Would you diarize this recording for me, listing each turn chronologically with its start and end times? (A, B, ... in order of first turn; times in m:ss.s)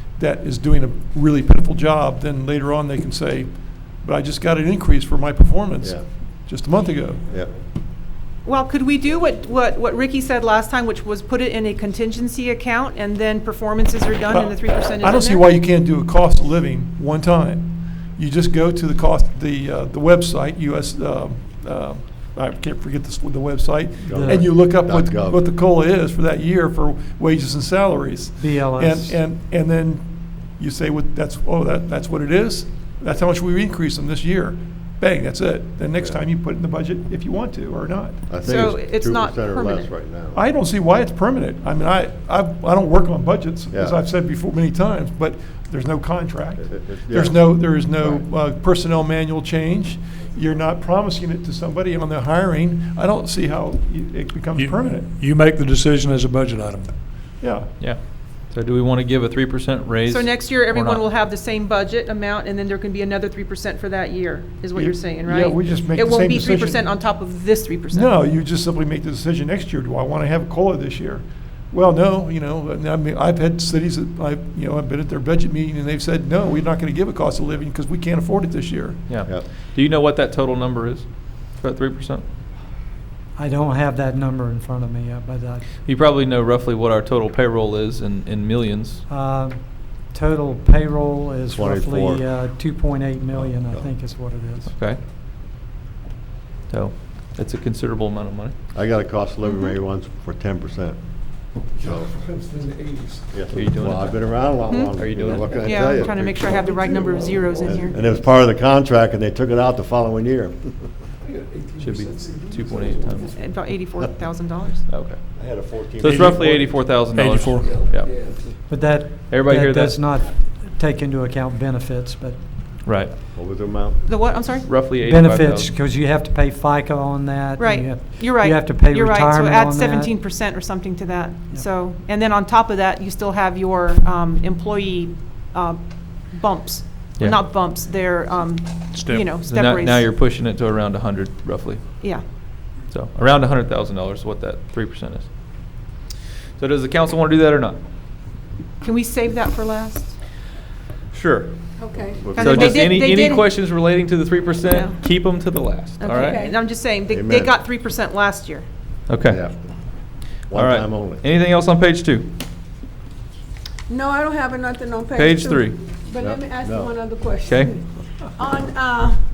0:00.2-0:07.2 A
0:08.4-0:15.4 B
0:14.3-0:38.4 A
0:24.0-0:24.5 C
0:24.1-0:25.4 D
0:28.4-0:29.2 C
0:38.3-0:40.4 D
0:38.4-0:39.9 B
0:40.3-0:55.0 A
0:46.6-0:48.2 D
0:54.5-0:57.0 E
0:57.4-0:57.7 A
0:57.8-1:01.0 F
1:00.0-1:08.1 B
1:04.7-1:06.8 A
1:07.9-1:19.0 A
1:19.1-1:22.2 F
1:23.4-1:25.7 C
1:25.8-1:29.0 F
1:29.1-1:34.7 C
1:31.5-1:32.2 D
1:33.3-1:33.9 D
1:34.6-1:35.0 F
1:36.7-1:38.5 F
1:38.7-1:41.0 D
1:41.7-1:42.1 D
1:41.8-1:43.3 A
1:43.3-1:46.6 D
1:43.5-1:45.6 F
1:44.7-1:45.0 B
1:45.5-1:47.9 B
1:46.5-1:48.2 A
1:47.7-1:50.7 D
1:51.2-1:53.4 A
1:51.8-1:53.3 F
1:53.3-1:54.8 B
1:54.9-1:55.2 F
1:55.4-1:56.6 D
1:56.0-1:58.1 F
1:56.1-1:56.5 E
1:57.1-1:57.9 E
1:57.6-1:58.5 A
1:58.7-2:02.4 C
1:59.3-2:00.0 F
2:02.8-2:03.1 F
2:03.3-2:04.0 D
2:04.0-2:04.7 B
2:04.6-2:05.8 F
2:05.0-2:10.2 C
2:07.6-2:20.0 B
2:19.4-2:22.0 F
2:22.6-2:25.3 F
2:26.6-2:27.8 F
2:28.8-2:30.1 B
2:31.1-2:31.5 F
2:31.8-2:32.3 G
2:32.2-2:32.9 D
2:32.4-2:33.4 B
2:32.4-2:36.4 F
2:34.7-2:35.0 B
2:36.0-2:38.6 B
2:36.0-2:36.6 G
2:37.1-2:37.5 D
2:39.1-2:39.4 F
2:39.2-2:39.6 D
2:40.5-2:41.2 D
2:40.5-2:42.3 F
2:43.9-2:49.2 G
2:45.1-2:45.8 F
2:46.2-2:46.9 D
2:47.4-2:47.7 F